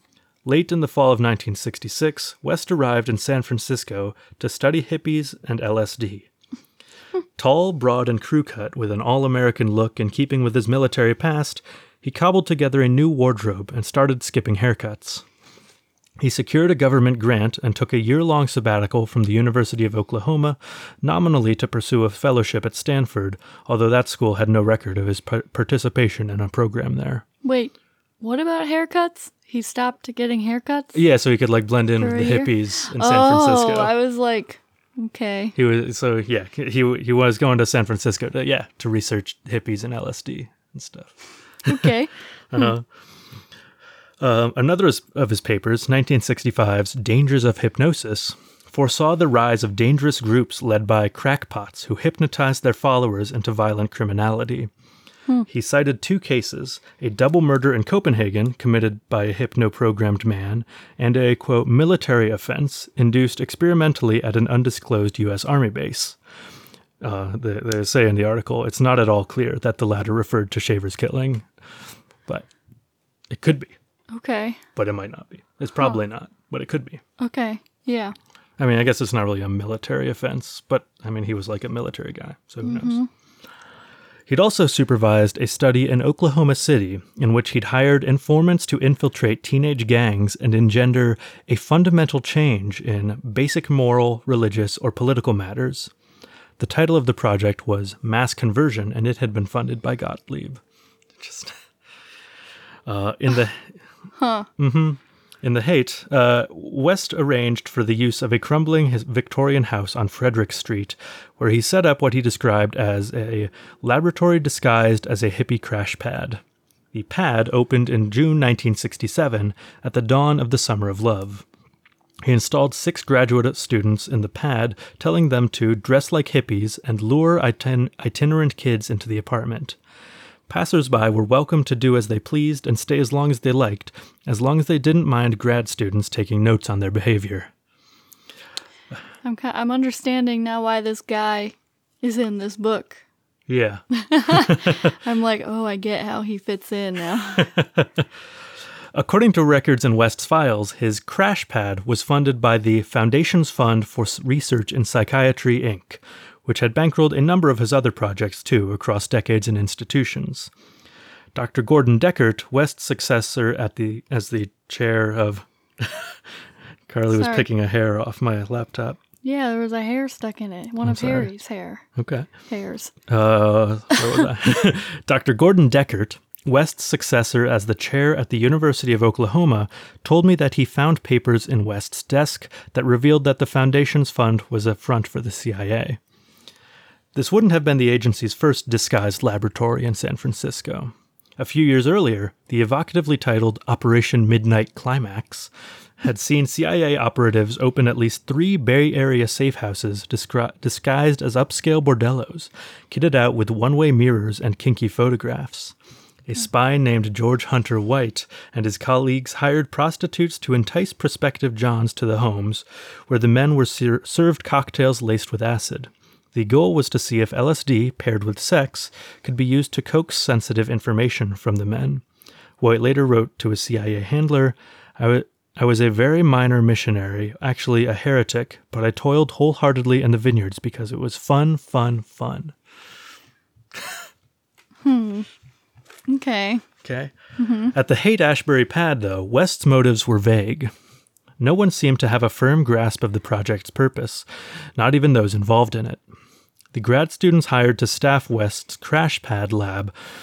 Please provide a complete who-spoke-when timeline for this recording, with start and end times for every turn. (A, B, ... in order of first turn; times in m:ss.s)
0:00.4-0:06.3 A
0:07.4-0:15.2 A
0:16.2-0:27.2 A
0:27.4-0:31.0 B
0:30.9-0:33.9 A
0:32.0-0:35.6 B
0:35.5-0:41.9 A
0:41.6-0:42.7 B
0:42.5-0:42.8 A
0:44.2-0:54.7 A
0:55.4-1:06.2 A
1:07.0-1:11.5 A
1:13.3-1:13.7 A
1:14.1-1:14.6 B
1:14.8-1:17.0 A
1:17.2-1:18.1 B
1:18.6-1:23.0 A
1:22.6-1:23.1 B
1:24.3-1:35.9 A
1:36.6-1:40.6 A
1:41.2-1:41.6 A
1:42.8-1:43.8 A
1:44.2-1:44.5 B
1:44.6-2:01.4 A
2:02.2-2:09.8 A
2:10.5-2:17.5 A
2:19.2-2:23.0 B
2:23.5-2:24.9 A
2:23.9-2:27.5 B
2:27.3-2:28.1 A
2:28.9-2:40.5 A
2:41.3-2:46.2 A
2:46.9-2:49.0 A
2:47.1-2:47.5 B
2:49.2-2:51.8 B
2:50.8-2:51.3 A
2:51.9-2:52.3 A
2:52.5-2:52.9 B
2:53.1-3:06.0 A
3:07.1-3:25.7 A
3:26.2-3:42.0 A
3:42.6-3:52.6 A
3:53.7-3:54.0 A
3:54.8-3:55.3 B
3:56.1-3:56.6 B
3:56.8-3:57.1 A
3:57.4-3:57.7 B
3:57.7-4:00.7 A
4:01.4-4:04.2 A
4:04.8-4:06.0 A
4:06.7-4:09.9 A